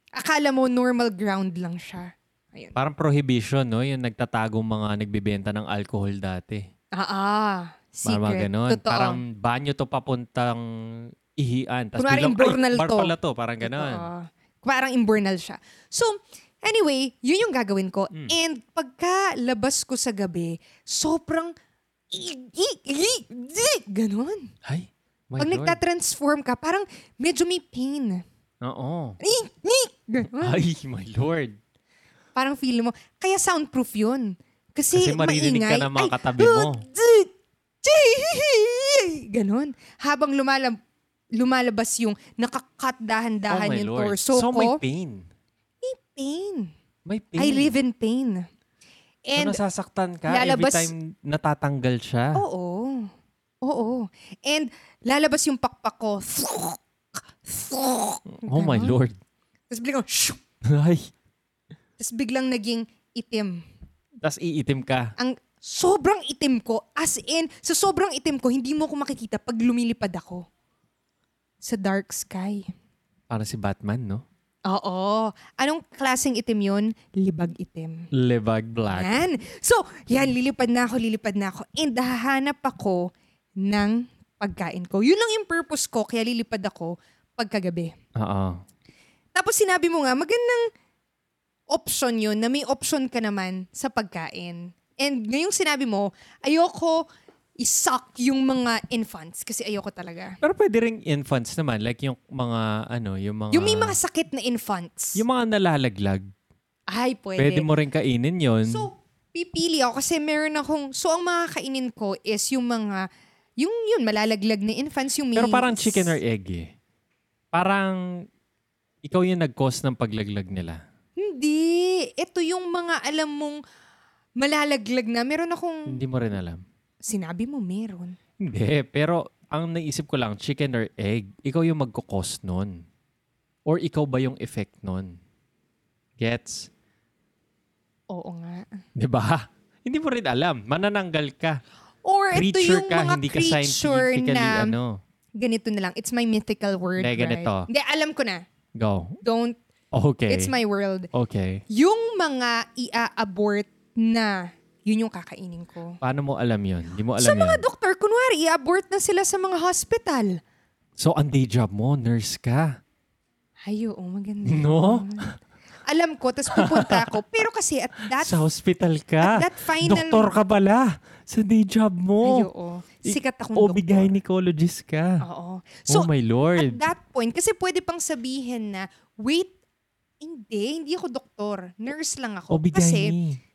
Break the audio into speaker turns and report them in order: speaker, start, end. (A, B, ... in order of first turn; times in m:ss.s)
0:00.2-0:02.8 A
0:02.8-0:06.6 B
0:07.0-0:09.2 A
0:08.0-0:14.0 B
0:12.0-0:21.5 A
0:22.1-0:24.5 A
0:24.6-0:25.8 B
0:25.4-0:28.2 A
0:28.6-0:29.2 B
0:29.2-0:30.6 A
0:30.4-0:31.6 B
0:32.4-0:37.3 A
0:34.9-0:36.8 B
0:37.8-0:40.8 A
0:41.4-0:44.8 A
0:43.5-0:45.3 B
0:45.8-0:46.7 A
0:47.1-0:47.7 B
0:47.4-0:48.4 A
0:49.3-0:49.6 A
0:49.4-0:52.4 B
0:50.3-0:50.9 A
0:52.4-0:53.1 A
0:53.6-0:56.8 A
0:57.4-0:58.9 A
0:58.4-0:59.2 B
0:59.7-1:00.4 A
1:00.6-1:01.1 B
1:02.0-1:03.6 A
1:04.2-1:05.1 B
1:05.2-1:10.4 A
1:11.6-1:12.7 A
1:13.3-1:14.2 B
1:14.7-1:18.1 A
1:18.1-1:19.2 B
1:18.9-1:23.1 A
1:23.6-1:27.9 A
1:28.2-1:28.6 B
1:29.4-1:30.7 A
1:31.7-1:37.0 A
1:37.6-1:40.4 A
1:40.4-1:44.0 B
1:43.5-1:45.2 A
1:45.2-1:46.3 B
1:46.9-1:47.7 A
1:47.4-1:48.9 B
1:48.6-1:53.1 A
1:53.6-1:56.2 A
1:55.4-1:56.7 B
1:57.5-1:58.0 B
1:59.0-2:00.8 B
2:01.2-2:03.6 A
2:04.4-2:06.0 A
2:05.9-2:06.6 B
2:07.1-2:08.2 A
2:08.4-2:12.8 B
2:13.7-2:15.2 B
2:16.2-2:16.7 B
2:18.1-2:18.8 A
2:19.0-2:21.6 B
2:22.0-2:24.7 A
2:22.3-2:25.0 B
2:25.4-2:28.4 A
2:27.0-2:27.7 B
2:28.8-2:29.2 B
2:29.2-2:29.6 A
2:29.9-2:30.5 B
2:30.3-2:31.1 A
2:31.1-2:31.6 B
2:31.7-2:36.0 A
2:36.0-2:37.6 B
2:37.2-2:40.4 A
2:41.0-2:42.8 B
2:43.7-2:45.3 A
2:44.5-2:45.1 B
2:45.9-2:48.4 A
2:46.5-2:47.0 B
2:48.2-2:52.5 B
2:49.2-2:50.3 A
2:52.2-2:54.1 A
2:53.0-2:55.2 B
2:55.2-2:59.5 A
2:55.9-2:56.8 B
3:00.2-3:03.2 A
3:02.5-3:03.4 B